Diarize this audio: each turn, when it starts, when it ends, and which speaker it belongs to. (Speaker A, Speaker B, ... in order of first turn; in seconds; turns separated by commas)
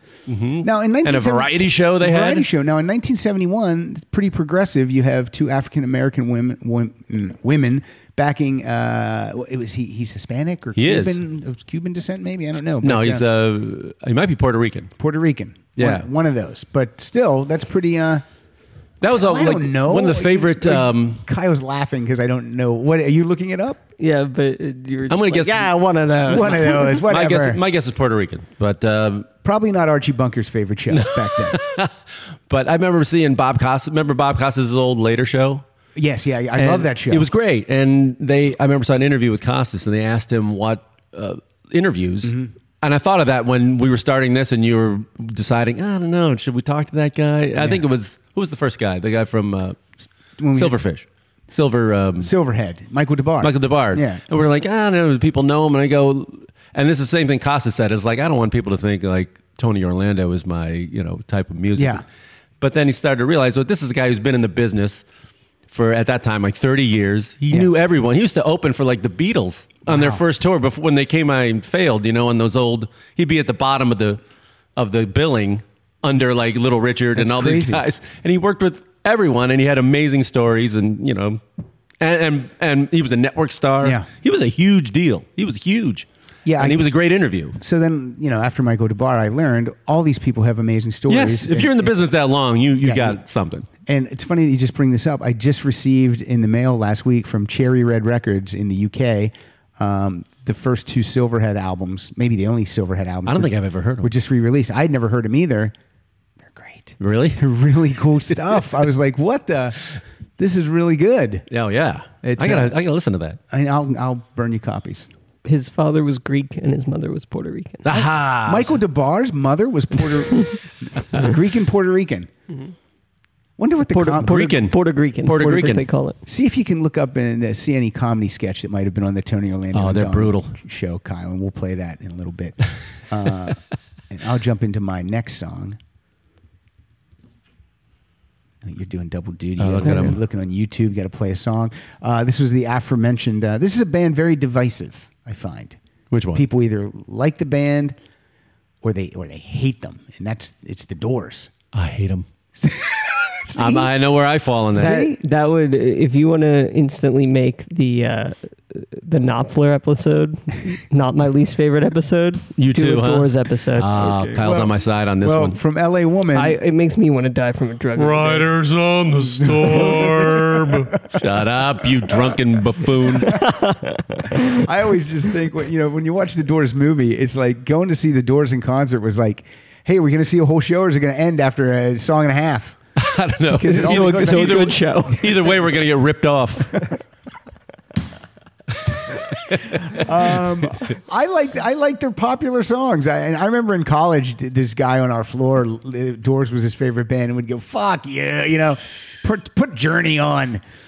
Speaker A: 0.3-2.5, Speaker B: 0.6-13.2, Speaker A: 10.8-11.2, Speaker A: 12.8-14.9, Speaker B: 15.0-18.2, Speaker A: 15.8-16.1, Speaker A: 19.0-21.2, Speaker B: 19.0-23.8, Speaker C: 24.0-26.9, Speaker A: 25.1-29.3, Speaker B: 26.3-27.6, Speaker B: 29.4-31.6, Speaker A: 30.9-31.9, Speaker A: 32.5-35.6, Speaker B: 36.0-37.3, Speaker A: 36.6-49.8, Speaker B: 42.2-42.5, Speaker B: 47.6-47.9, Speaker B: 50.4-50.8, Speaker A: 50.5-52.3, Speaker B: 52.2-54.2, Speaker A: 53.4-62.0, Speaker B: 61.8-62.0, Speaker A: 62.6-65.0, Speaker A: 65.7-74.2, Speaker B: 69.9-70.2, Speaker A: 74.8-81.4, Speaker B: 77.2-77.8, Speaker A: 82.0-86.1, Speaker B: 83.8-84.1, Speaker B: 86.5-86.8, Speaker A: 86.6-87.6, Speaker B: 87.6-92.0, Speaker A: 91.1-93.7, Speaker B: 92.8-93.2, Speaker B: 93.9-105.7, Speaker A: 103.3-104.1, Speaker B: 106.4-109.8, Speaker A: 107.0-107.4, Speaker B: 110.4-111.5, Speaker A: 111.5-113.4, Speaker B: 112.2-112.8, Speaker B: 113.5-115.1, Speaker C: 115.5-117.8, Speaker A: 117.8-118.8, Speaker B: 117.9-122.3, Speaker B: 123.6-124.7, Speaker C: 123.9-126.2, Speaker A: 124.2-125.9, Speaker B: 125.4-125.7, Speaker B: 126.3-135.8, Speaker A: 129.7-130.6, Speaker B: 138.6-145.8, Speaker A: 139.6-140.2, Speaker A: 146.1-146.4, Speaker B: 146.3-148.0, Speaker B: 148.8-151.5, Speaker A: 151.7-152.3, Speaker B: 152.6-153.9, Speaker A: 153.6-154.9, Speaker B: 154.7-155.2, Speaker C: 154.8-164.3, Speaker A: 162.6-165.6, Speaker B: 164.0-166.6, Speaker C: 166.3-168.5, Speaker A: 168.0-173.4, Speaker B: 169.1-171.2, Speaker B: 172.1-172.4, Speaker B: 172.9-173.6, Speaker C: 173.3-174.4, Speaker B: 174.3-182.8, Speaker A: 183.0-186.9, Speaker B: 183.5-184.8, Speaker C: 183.6-185.5, Speaker A: 189.5-190.1, Speaker B: 189.7-200.6